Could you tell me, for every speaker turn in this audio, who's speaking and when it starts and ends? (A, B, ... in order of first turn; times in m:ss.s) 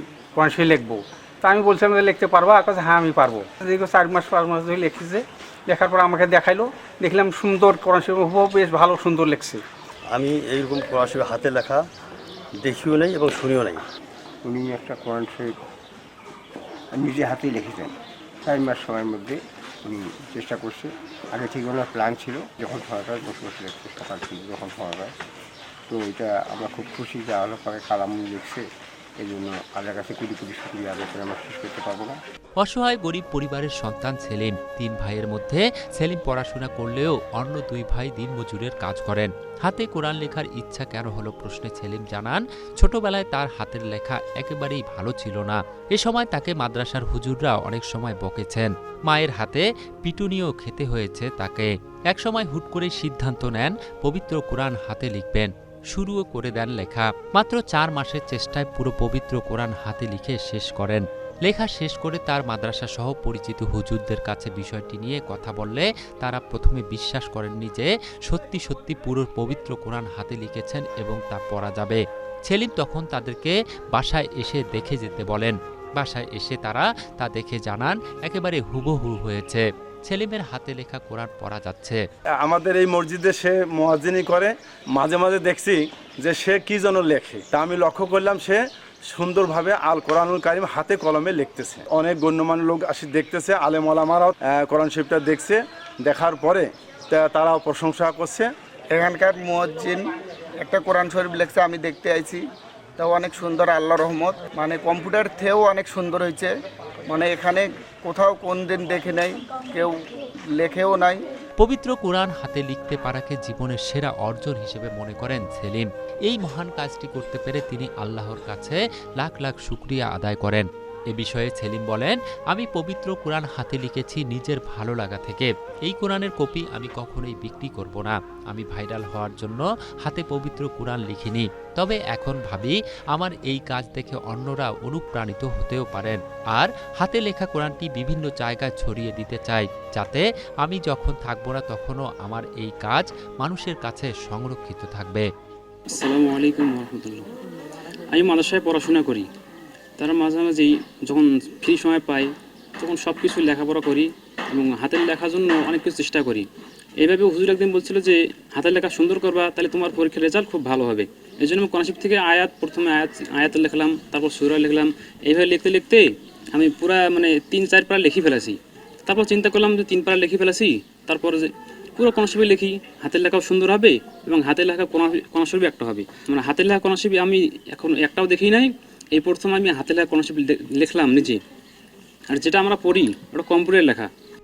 0:00.4-0:09.6 A
0:10.1-0:11.8 B
0:12.6-0:13.8 B
0:14.4-0:15.6 C
0:16.9-0:17.9 C
0:18.4-0:25.1 C
0:25.9-0:28.6 C
0:29.2-0:32.2 C
0:32.6-1:22.0 D
1:22.5-1:28.6 E
1:29.1-1:38.5 E
1:38.9-1:40.0 F
1:40.6-1:42.4 F
1:43.0-1:46.5 F
1:47.1-1:49.9 F
1:50.6-1:51.2 F
1:51.6-2:25.2 D
2:25.9-2:27.3 G
2:28.1-2:29.3 G
2:30.0-2:36.5 G
2:37.0-3:01.4 G
3:02.3-3:04.1 G